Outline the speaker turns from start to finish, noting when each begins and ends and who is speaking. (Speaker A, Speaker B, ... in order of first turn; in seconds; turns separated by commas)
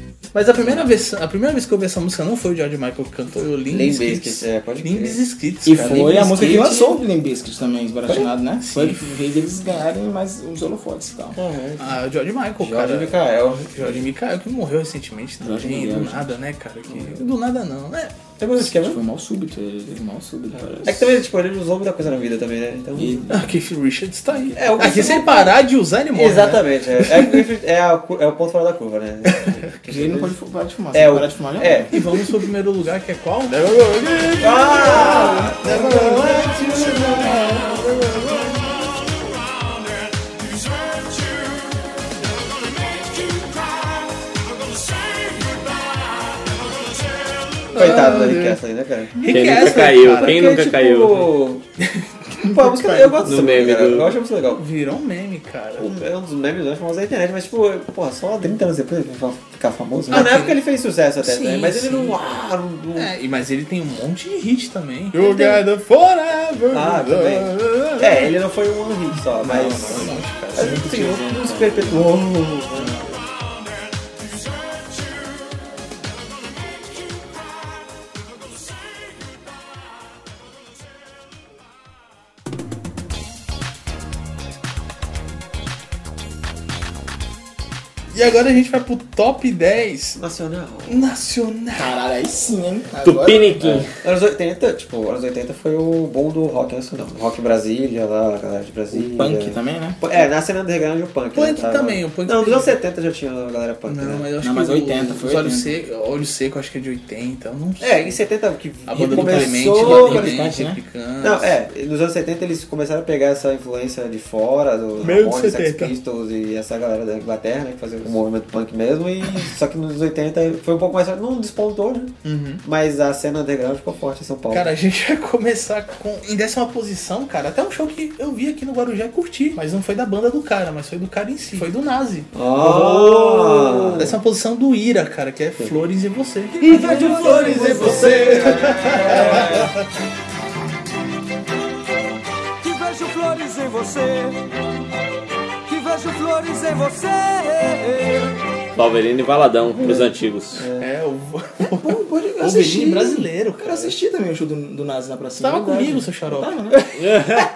Speaker A: 0.3-6.9, Speaker B: 0.6-0.9, Speaker B: 3.7-5.2, Speaker C: 5.7-11.4, Speaker B: 5.8-7.0, Speaker A: 8.6-9.2, Speaker B: 11.4-11.9, Speaker A: 11.8-13.2, Speaker B: 12.6-14.0, Speaker A: 13.7-18.2, Speaker C: 15.4-16.4, Speaker B: 18.4-19.0, Speaker C: 18.6-21.2, Speaker B: 20.6-23.3, Speaker C: 22.9-23.6, Speaker A: 23.3-27.5, Speaker C: 24.4-25.2, Speaker B: 24.6-25.6, Speaker B: 26.1-30.3, Speaker C: 29.9-32.1, Speaker B: 30.9-31.9, Speaker A: 31.9-38.5, Speaker B: 34.4-36.0, Speaker C: 34.9-37.6, Speaker D: 39.1-41.6, Speaker D: 42.5-46.2, Speaker D: 46.8-47.6, Speaker A: 47.7-48.6, Speaker B: 47.8-51.6, Speaker A: 49.1-50.7, Speaker E: 49.2-51.3, Speaker A: 51.8-53.0, Speaker B: 52.4-54.6, Speaker E: 53.2-54.2, Speaker A: 54.5-55.9, Speaker B: 55.8-63.1, Speaker A: 60.1-60.6, Speaker A: 61.2-68.4, Speaker B: 66.7-73.2, Speaker A: 69.4-70.8, Speaker C: 69.4-72.2, Speaker A: 72.8-73.1, Speaker A: 88.1-90.2, Speaker B: 90.2-91.1, Speaker A: 90.9-92.0, Speaker C: 91.7-93.9, Speaker E: 93.0-93.9, Speaker B: 94.0-104.3, Speaker C: 98.9-100.0, Speaker A: 101.3-102.8, Speaker A: 103.9-108.2, Speaker C: 104.4-105.8, Speaker B: 107.8-110.4, Speaker A: 108.9-111.6, Speaker C: 109.0-110.8, Speaker B: 111.2-124.7, Speaker A: 115.0-116.0, Speaker A: 122.2-122.6, Speaker A: 124.5-139.8, Speaker B: 132.3-134.2, Speaker D: 136.5-139.0, Speaker B: 137.2-139.8, Speaker D: 142.6-144.4, Speaker D: 145.7-148.4, Speaker E: 148.8-150.7, Speaker B: 150.6-150.9, Speaker A: 150.8-154.0, Speaker C: 151.6-156.8, Speaker A: 155.4-156.8, Speaker E: 157.0-157.4